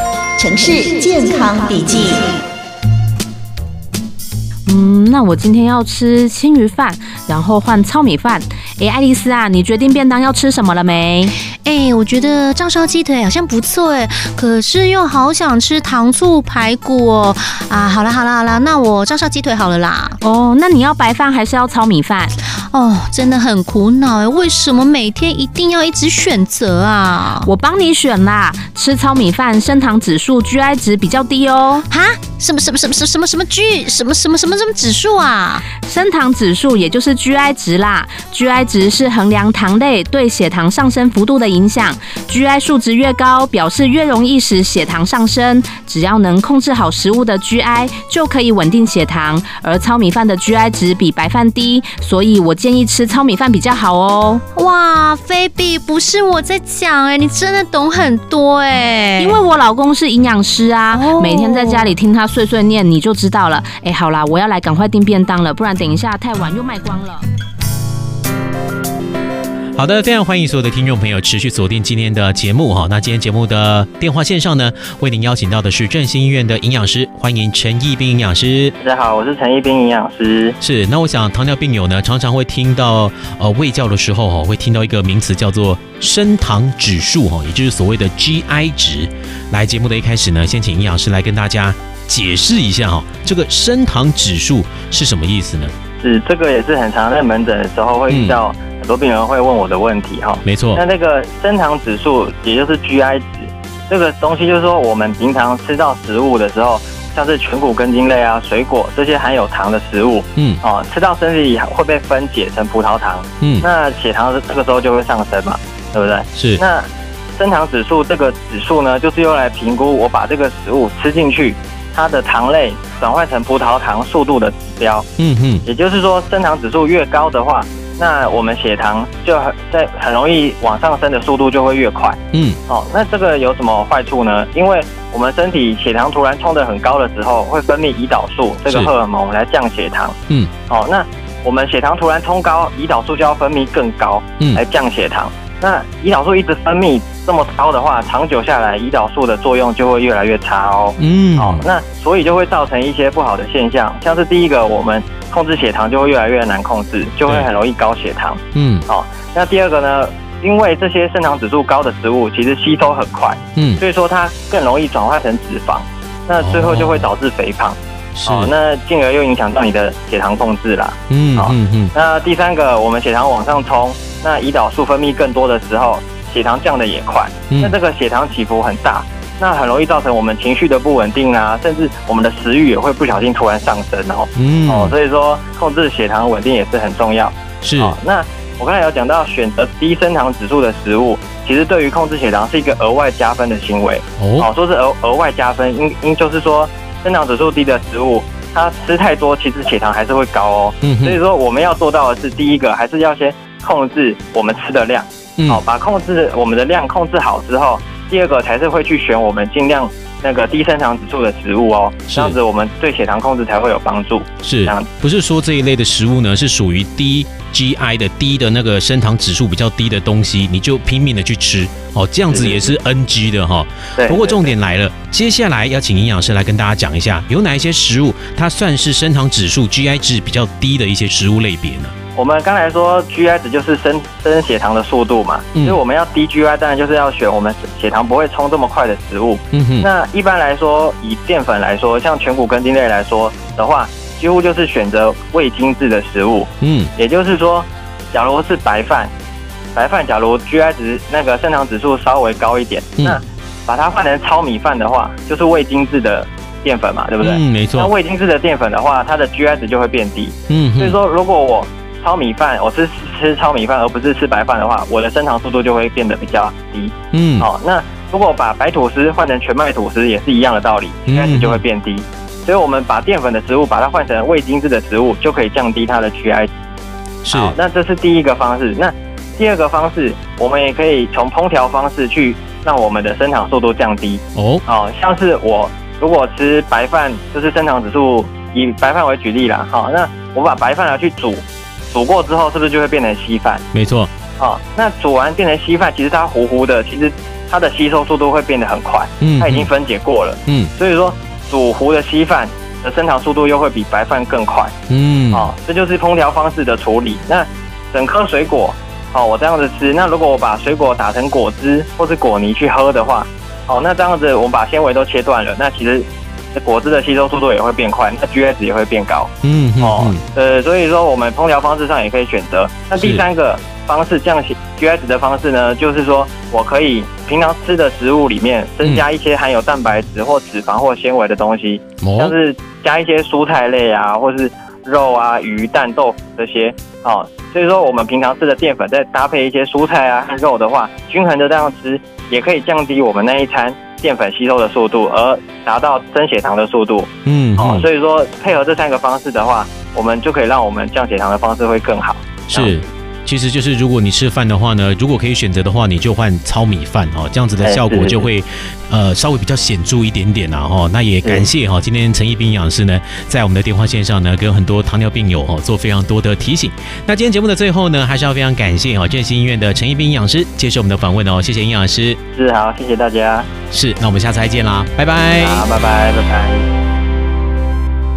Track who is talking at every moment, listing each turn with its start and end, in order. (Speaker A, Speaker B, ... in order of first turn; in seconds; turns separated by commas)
Speaker A: 0.4-2.4, Speaker B: 4.7-11.3, Speaker C: 11.6-20.2, Speaker B: 20.2-22.3, Speaker C: 22.7-27.5, Speaker B: 27.4-31.9, Speaker C: 31.9-35.7, Speaker B: 35.8-54.4, Speaker C: 54.5-59.4, Speaker B: 59.2-67.3, Speaker C: 60.9-61.9, Speaker D: 69.8-78.7, Speaker E: 78.8-80.6, Speaker D: 80.6-95.7, Speaker E: 96.0-125.1, Speaker D: 98.1-98.4, Speaker D: 100.5-100.8, Speaker D: 110.4-110.6, Speaker D: 113.4-113.7, Speaker D: 116.4-116.6, Speaker D: 125.2-125.6, Speaker E: 125.6-140.2, Speaker D: 132.3-132.6, Speaker E: 140.7-214.9, Speaker D: 151.0-151.6, Speaker D: 158.6-158.8, Speaker D: 163.6-163.8, Speaker D: 166.4-167.1, Speaker D: 168.2-168.5, Speaker D: 171.1-171.9, Speaker D: 177.5-177.8, Speaker D: 184.4-184.9, Speaker D: 187.6-188.0, Speaker D: 194.2-194.5, Speaker D: 200.8-201.2, Speaker D: 212.1-212.4, Speaker D: 214.4-231.9, Speaker E: 222.3-222.7, Speaker E: 224.0-224.5, Speaker E: 232.2-249.1, Speaker D: 239.5-239.9, Speaker D: 246.6-246.9, Speaker E: 249.8-276.5, Speaker D: 257.2-257.9, Speaker D: 260.5-261.0, Speaker D: 267.1-267.5, Speaker D: 271.1-271.6, Speaker D: 277.2-277.6, Speaker E: 277.3-293.6, Speaker D: 284.4-284.6, Speaker D: 293.7-294.1, Speaker E: 294.4-304.7, Speaker D: 299.2-299.7, Speaker D: 304.9-305.5, Speaker E: 305.3-352.8, Speaker D: 319.4-320.2, Speaker D: 323.0-323.2, Speaker D: 332.0-332.3, Speaker D: 347.3-347.9, Speaker D: 352.5-372.2, Speaker E: 357.6-358.3, Speaker E: 372.3-373.5, Speaker D: 373.7-375.6, Speaker E: 375.4-376.7